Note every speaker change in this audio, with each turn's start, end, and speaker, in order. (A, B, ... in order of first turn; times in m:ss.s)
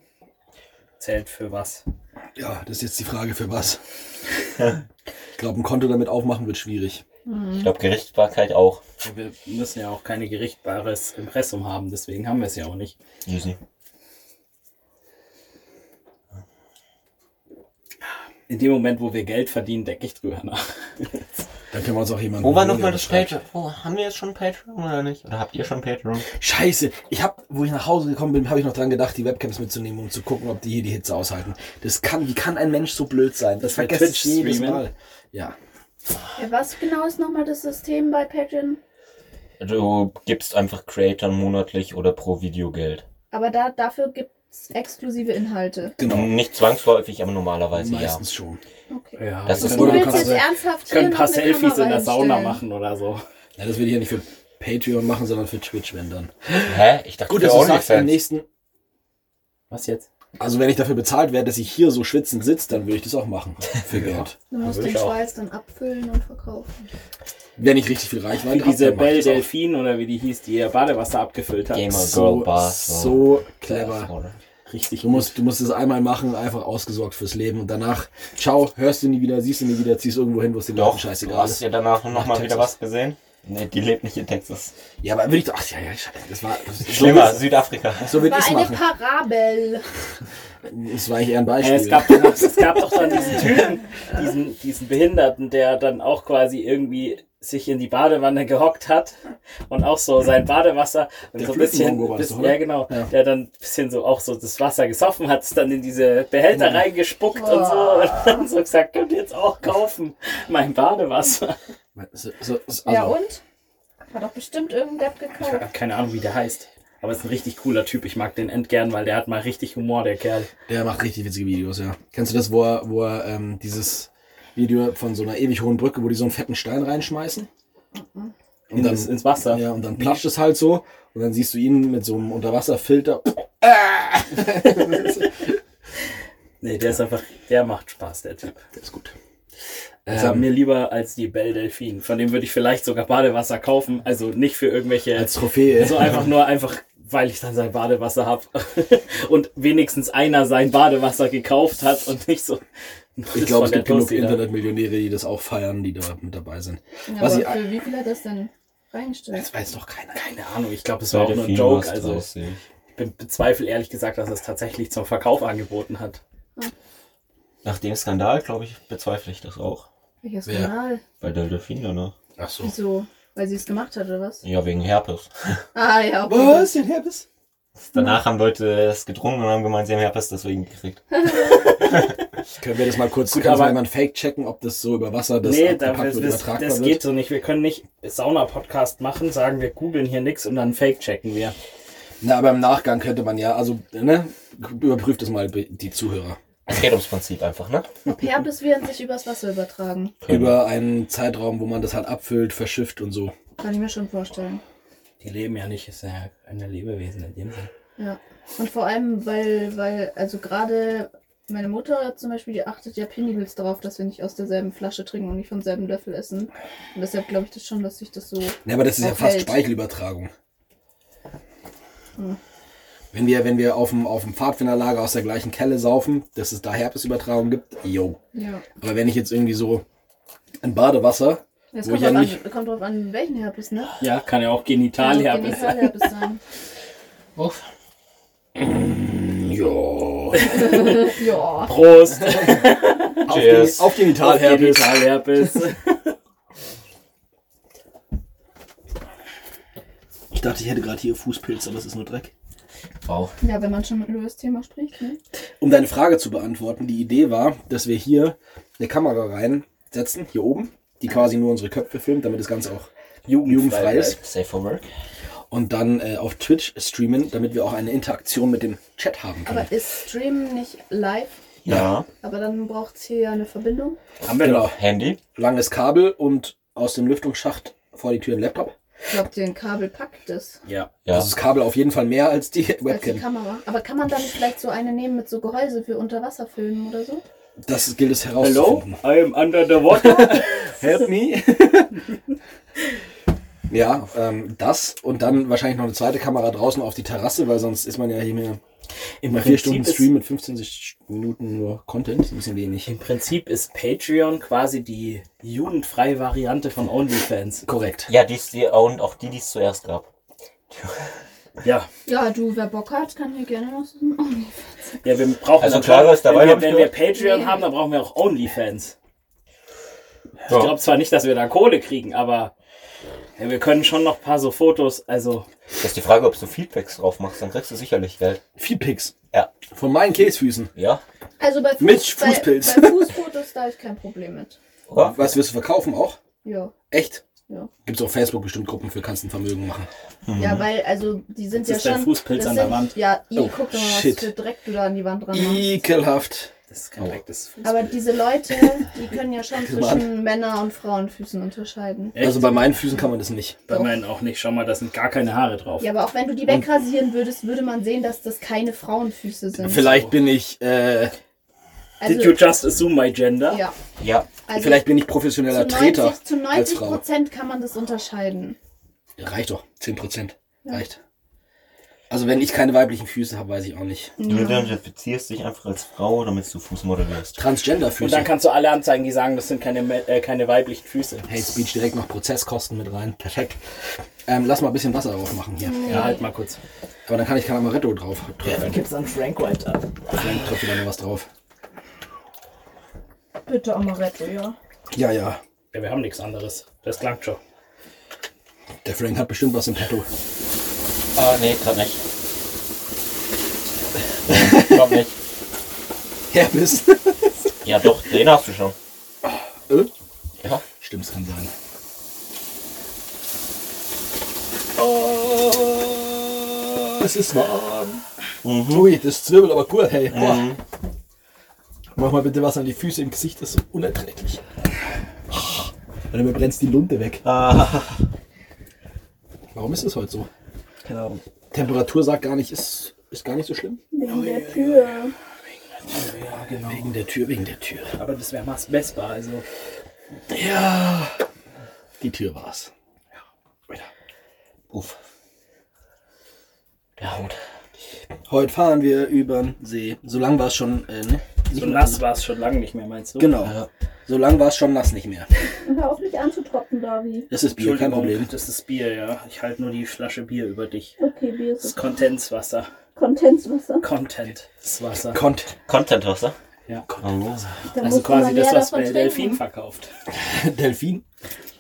0:01.0-0:01.8 A
0:02.4-0:03.8 B
0:05.4-0:07.0 B
0:07.3-0:07.7 C
0:07.5-0:08.8 D
0:09.0-0:12.9 A
0:13.3-0:13.6 D
0:18.5-0:21.3 A
0:21.7-0:23.4 B
0:22.4-0:26.3 D
0:26.3-0:35.6 B
0:33.6-0:34.9 A
0:36.4-0:38.8 C
0:39.6-0:43.0 D
0:43.3-0:46.0 C
0:46.0-0:46.3 B
0:46.0-0:48.2 D
0:47.7-0:48.6 B
0:48.9-0:52.6 C
0:49.2-0:53.2 A
0:49.4-0:50.2 D
0:49.6-0:50.4 B
0:53.6-0:58.4 B
0:56.7-0:58.2 D
0:59.7-1:00.1 A
1:00.4-1:04.4 B
1:04.5-1:06.8 C
1:04.6-1:05.2 A
1:07.6-1:09.5 B
1:08.4-1:11.8 A
1:11.7-1:14.4 D
1:11.9-1:14.1 B
1:14.7-1:15.4 A
1:15.0-1:22.7 B
1:20.7-1:24.7 D
1:25.0-1:28.9 B
1:26.9-1:28.2 D
1:28.1-1:29.9 C
1:30.6-1:32.6 B
1:31.6-1:51.6 A
1:41.4-1:43.1 B
1:46.5-1:46.8 B
1:47.3-1:48.5 C
1:52.0-1:53.2 B
1:52.8-1:53.4 C
1:54.1-1:55.6 C
1:55.4-2:00.5 A
2:00.7-2:07.5 B
2:07.9-2:08.3 C
2:08.7-2:15.5 B
2:08.7-2:10.2 A
2:16.6-2:18.6 A
2:18.7-2:19.1 B
2:20.1-2:20.5 B
2:20.1-2:32.6 A
2:25.1-2:26.2 B
2:33.2-2:34.4 A
2:33.3-2:37.6 B
2:37.1-2:39.5 C
2:39.3-2:40.2 B
2:40.1-2:42.3 A
2:41.1-2:42.6 D
2:42.9-2:46.2 A
2:47.6-2:49.9 D
2:50.2-2:51.0 C
2:50.5-2:50.7 B
2:51.2-2:52.2 D
2:52.4-2:52.7 B
2:52.6-2:54.4 C
2:54.4-2:55.6 D
2:55.7-2:56.7 C
2:56.3-2:57.3 B
2:57.8-3:01.7 D
3:02.6-3:07.1 B
3:03.3-3:03.8 A
3:05.4-3:11.6 A
3:12.2-3:16.4 B
3:16.7-3:17.9 D
3:18.1-3:20.2 C
3:20.2-3:20.6 D
3:20.3-3:23.3 B
3:23.6-3:24.6 C
3:25.2-3:27.7 A
3:28.0-3:39.6 C
3:38.6-3:40.3 B
3:43.1-3:48.2 B
3:48.3-3:48.7 C
3:48.8-3:49.8 B
3:50.6-3:52.4 B
3:51.7-3:54.0 C
3:54.0-3:56.0 A
3:55.0-3:56.4 C
3:57.4-3:57.6 D
3:58.6-4:00.6 B
4:00.4-4:01.1 A
4:00.5-4:01.7 C
4:01.7-4:03.3 A
4:02.2-4:02.7 B
4:03.2-4:05.1 B
4:03.3-4:03.8 D
4:03.9-4:06.2 A
4:10.3-4:12.3 B
4:13.0-4:13.4 D
4:13.4-4:15.2 C
4:15.6-4:22.9 B
4:23.3-4:24.2 A
4:23.4-4:24.2 B
4:24.2-4:24.9 D
4:25.5-4:29.7 B
4:29.5-4:31.4 C
4:31.7-4:31.9 B
4:31.7-4:32.1 D
4:32.2-4:34.0 C
4:34.2-4:34.8 A
4:34.4-4:34.8 B
4:34.7-4:35.2 D
4:35.4-4:38.7 B
4:39.1-4:40.6 C
4:40.6-4:40.9 A
4:41.0-4:41.3 D
4:41.1-4:43.2 B
4:42.9-4:47.2 C
4:47.6-4:48.9 B
4:48.4-4:50.7 A
4:50.0-4:52.0 B
4:53.7-4:58.6 B
4:59.2-5:00.1 A
4:59.2-5:02.9 B
5:02.8-5:07.7 A
5:07.7-5:08.1 B
5:08.1-5:10.1 D
5:10.7-5:11.2 D
5:11.6-5:11.9 A
5:12.1-5:15.1 C
5:15.0-5:19.0 A
5:15.6-5:16.9 D
5:17.1-5:17.6 C
5:20.5-5:22.5 A
5:20.5-5:20.8 D
5:23.4-5:25.5 A
5:25.8-5:28.4 D
5:28.6-5:29.1 B
5:29.7-5:30.7 B
5:30.8-5:31.0 D
5:31.4-5:34.6 C
5:31.8-5:33.1 B
5:34.9-5:35.4 D
5:35.0-5:36.2 B
5:36.4-5:36.8 C
5:36.9-5:37.2 B
5:37.8-5:39.9 B
5:40.3-5:40.7 D
5:40.4-5:45.7 C
5:41.6-5:43.0 A
5:43.4-5:44.3 B
5:45.3-5:47.2 B
5:46.7-5:48.0 A
5:47.6-5:52.2 C
5:49.5-5:50.2 B
5:52.1-5:52.8 A
5:52.2-5:53.7 B
5:53.7-5:55.9 A
5:53.7-5:54.0 C
5:55.8-5:59.9 C
5:59.6-6:01.1 B
5:59.7-6:00.1 A
6:02.0-6:02.5 C
6:02.0-6:03.6 A
6:03.5-6:03.7 C
6:04.0-6:04.3 D
6:04.4-6:04.9 C
6:04.6-6:07.0 B
6:05.4-6:08.6 C
6:09.2-6:11.0 B
6:12.1-6:14.2 B
6:14.2-6:14.8 C
6:14.2-6:17.4 D
6:17.4-6:18.3 B
6:18.0-6:21.3 A
6:21.2-6:23.6 B
6:24.3-6:26.1 B
6:25.6-6:26.2 C
6:25.8-6:26.6 A
6:27.1-6:28.8 B
6:28.4-6:30.5 A
6:30.2-6:31.3 B
6:33.5-6:34.6 C
6:34.9-6:35.4 B
6:35.7-6:37.4 A
6:38.8-6:40.1 B
6:41.2-6:42.0 D
6:44.3-6:45.1 D
6:44.3-6:45.0 B
6:46.3-6:47.5 B
6:47.6-6:48.8 D
6:49.2-6:49.9 B
6:50.8-6:51.5 B
6:54.8-6:58.0 B
6:58.4-6:58.9 D
6:58.7-7:00.5 B
7:00.1-7:00.6 D
7:02.0-7:04.4 B
7:05.3-7:07.2 B
7:07.2-7:08.1 D
7:09.5-7:10.3 B
7:10.8-7:11.2 A
7:11.5-7:13.8 B
7:13.9-7:15.1 C
7:14.0-7:15.1 A
7:15.9-7:16.9 A
7:16.7-7:18.0 B
7:17.9-7:19.5 A
7:20.3-7:21.2 B
7:22.0-7:22.7 B
7:24.7-7:25.0 D
7:27.0-7:27.4 D
7:28.3-7:32.1 B
7:31.5-7:33.3 A
7:33.2-7:35.3 B
7:33.4-7:33.7 D
7:35.6-7:37.3 C
7:37.3-7:38.3 B
7:37.5-7:41.0 A
7:41.0-7:41.8 C
7:41.6-7:42.7 A
7:43.0-7:43.9 C
7:43.8-7:45.2 A
7:45.1-7:45.5 B
7:45.7-7:46.4 D
7:46.7-7:49.9 A
7:47.0-7:47.6 D
7:47.7-7:49.4 C
7:50.1-7:51.0 B